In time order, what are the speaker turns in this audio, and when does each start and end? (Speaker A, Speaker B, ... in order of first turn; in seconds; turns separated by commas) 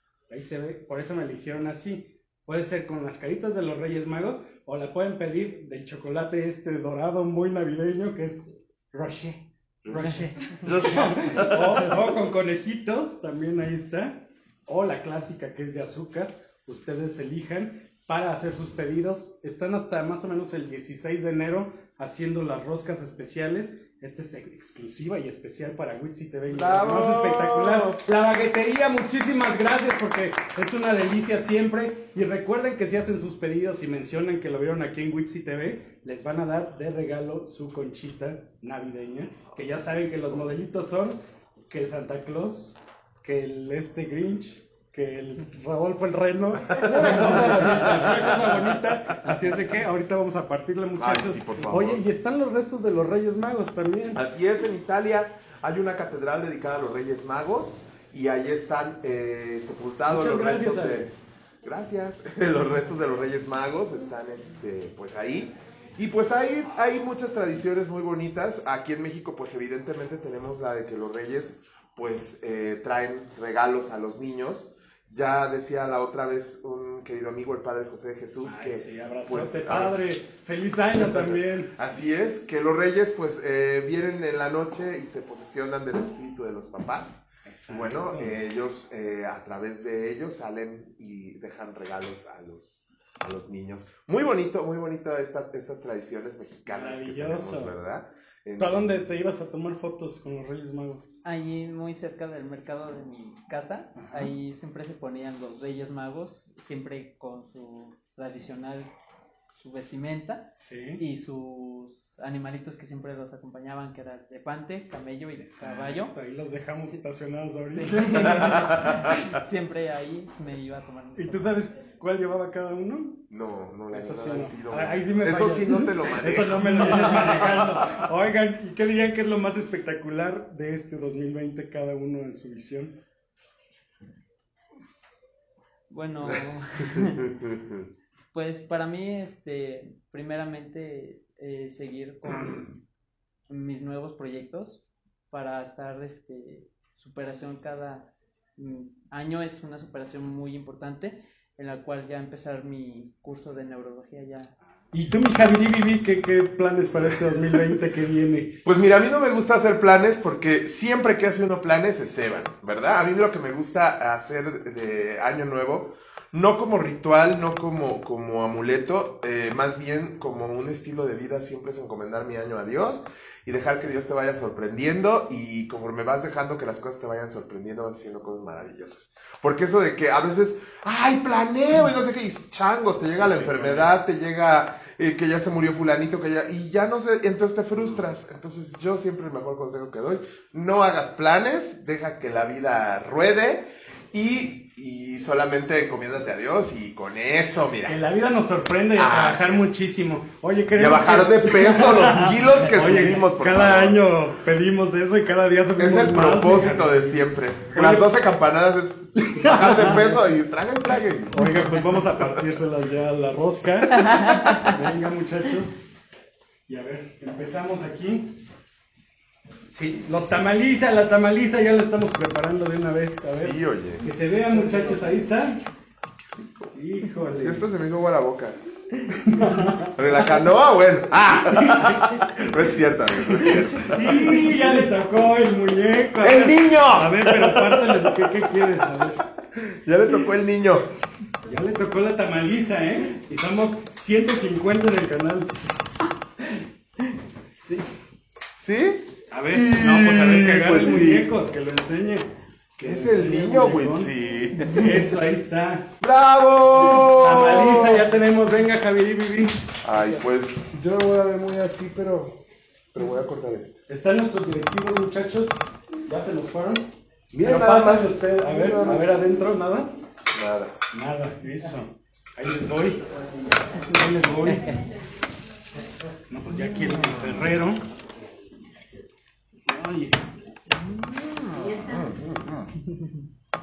Speaker A: 0.3-41.2, Speaker B: 9.9-11.9, Speaker B: 26.5-28.0, Speaker A: 41.7-54.2, Speaker B: 46.7-48.5, Speaker B: 51.0-52.0, Speaker B: 54.1-80.0, Speaker A: 60.1-61.0, Speaker A: 78.5-81.7, Speaker B: 80.9-99.0, Speaker A: 87.5-88.3, Speaker A: 96.7-97.8, Speaker A: 98.6-101.1, Speaker C: 101.2-108.9, Speaker C: 109.6-116.1, Speaker A: 110.6-111.0, Speaker A: 115.4-118.4, Speaker C: 117.7-121.5, Speaker B: 118.3-118.7, Speaker A: 121.2-123.2, Speaker B: 123.3-128.0, Speaker A: 123.9-132.9, Speaker C: 135.9-137.3, Speaker B: 137.4-137.8, Speaker C: 138.3-142.8, Speaker C: 143.5-154.5, Speaker A: 154.9-158.6, Speaker B: 158.7-198.0, Speaker A: 183.2-183.9, Speaker A: 197.9-208.1, Speaker B: 198.9-199.8, Speaker B: 200.7-204.0, Speaker B: 205.8-211.6, Speaker A: 209.3-210.3, Speaker A: 211.3-215.9, Speaker A: 216.7-218.4, Speaker A: 219.7-225.6, Speaker B: 223.2-224.1, Speaker A: 226.7-227.7, Speaker B: 227.4-228.6, Speaker A: 229.2-229.9, Speaker B: 229.9-234.9, Speaker A: 233.8-239.2, Speaker B: 236.2-240.8, Speaker A: 241.4-246.1, Speaker A: 247.6-247.9, Speaker B: 248.5-251.3, Speaker A: 249.3-252.3, Speaker B: 252.8-255.1, Speaker A: 252.8-254.1, Speaker A: 254.7-255.9, Speaker B: 256.0-258.1, Speaker A: 257.2-259.5, Speaker B: 259.8-262.4, Speaker B: 262.9-263.7, Speaker A: 263.9-269.9, Speaker B: 267.4-269.1, Speaker B: 270.3-270.7, Speaker A: 270.9-273.0, Speaker A: 273.7-274.8, Speaker A: 276.3-277.8, Speaker A: 279.7-280.2, Speaker B: 281.0-282.3